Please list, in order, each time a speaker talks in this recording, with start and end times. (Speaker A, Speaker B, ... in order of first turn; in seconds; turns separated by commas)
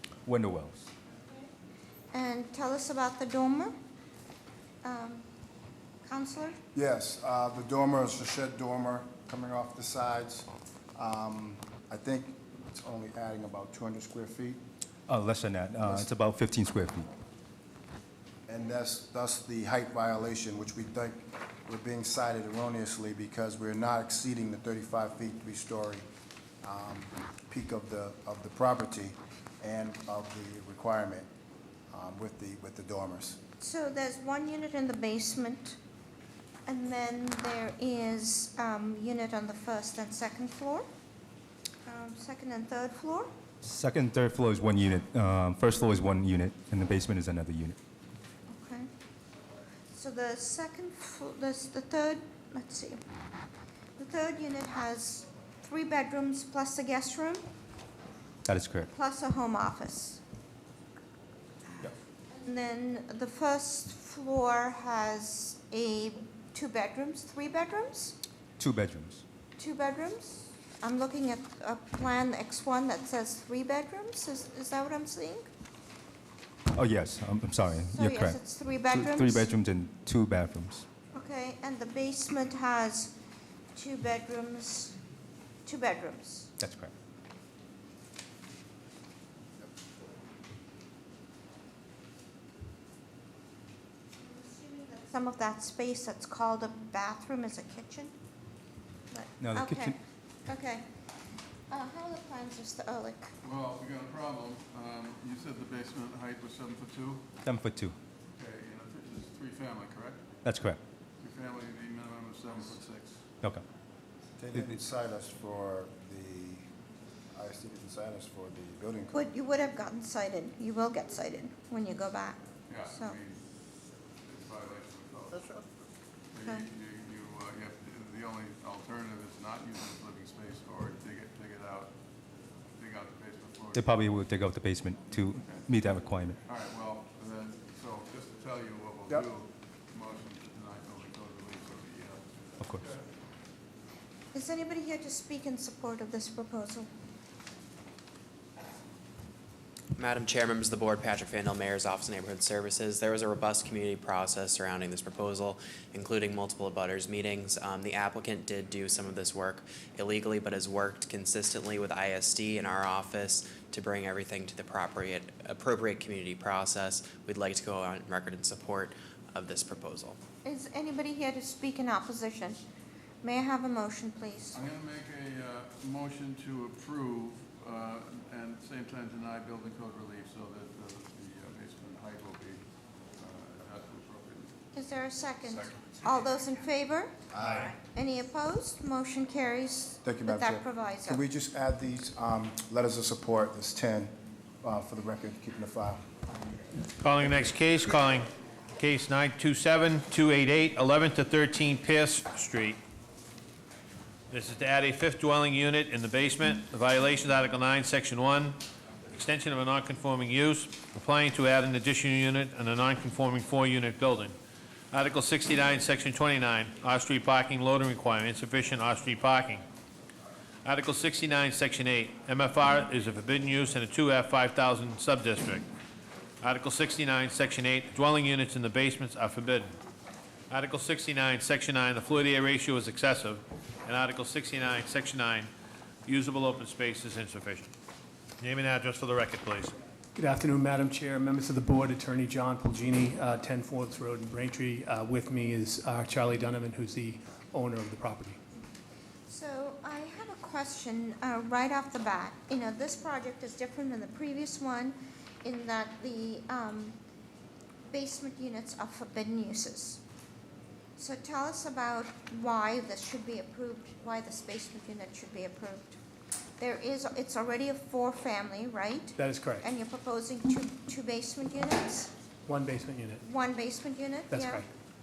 Speaker A: 0.3-0.9, Speaker B: 2.1-3.7, Speaker B: 4.8-5.3, Speaker B: 6.0-6.6, Speaker C: 6.7-14.6, Speaker A: 15.1-17.1, Speaker C: 15.8-16.1, Speaker C: 18.5-26.1, Speaker C: 26.6-31.3, Speaker C: 31.9-33.4, Speaker B: 33.6-35.8, Speaker B: 36.7-40.9, Speaker B: 41.9-43.3, Speaker A: 43.6-47.8, Speaker B: 48.5-48.9, Speaker B: 49.9-53.0, Speaker B: 54.0-57.4, Speaker A: 58.5-58.9, Speaker B: 58.8-60.2, Speaker B: 62.4-68.2, Speaker A: 68.6-69.2, Speaker B: 69.6-75.5, Speaker A: 76.7-80.9, Speaker B: 77.9-79.5, Speaker B: 81.1-83.1, Speaker B: 83.8-85.0, Speaker B: 85.7-86.5, Speaker A: 86.6-86.9, Speaker B: 94.2-98.1, Speaker B: 99.1-100.9, Speaker A: 99.4-100.0, Speaker B: 101.7-103.3, Speaker D: 103.4-107.2, Speaker A: 107.5-108.0, Speaker D: 108.4-110.2, Speaker A: 110.4-110.8, Speaker D: 111.2-113.2, Speaker C: 114.4-116.7, Speaker C: 117.3-119.3, Speaker B: 119.1-123.2, Speaker D: 122.7-123.4, Speaker D: 124.2-125.6, Speaker D: 126.3-131.9, Speaker D: 132.8-134.1, Speaker A: 133.7-136.4, Speaker D: 135.1-135.7, Speaker D: 136.4-143.0, Speaker B: 144.3-146.9, Speaker E: 150.0-170.2, Speaker B: 170.4-172.7, Speaker B: 173.2-174.6, Speaker D: 174.5-182.6, Speaker D: 183.2-184.6, Speaker B: 184.7-187.2, Speaker D: 185.6-186.2, Speaker C: 187.4-187.7, Speaker B: 187.8-191.2, Speaker C: 190.0-196.0, Speaker F: 197.0-202.8, Speaker F: 204.3-208.6, Speaker F: 209.1-214.3, Speaker F: 214.9-219.6, Speaker F: 220.7-225.7, Speaker F: 226.4-229.7, Speaker F: 230.5-235.5, Speaker F: 236.1-237.7, Speaker F: 238.4-239.8, Speaker G: 240.2-248.4, Speaker B: 249.3-257.0, Speaker B: 257.9-260.0, Speaker B: 261.0-266.0, Speaker B: 266.6-272.1, Speaker G: 269.2-269.7, Speaker G: 272.5-273.2, Speaker B: 273.2-274.6, Speaker G: 274.3-274.7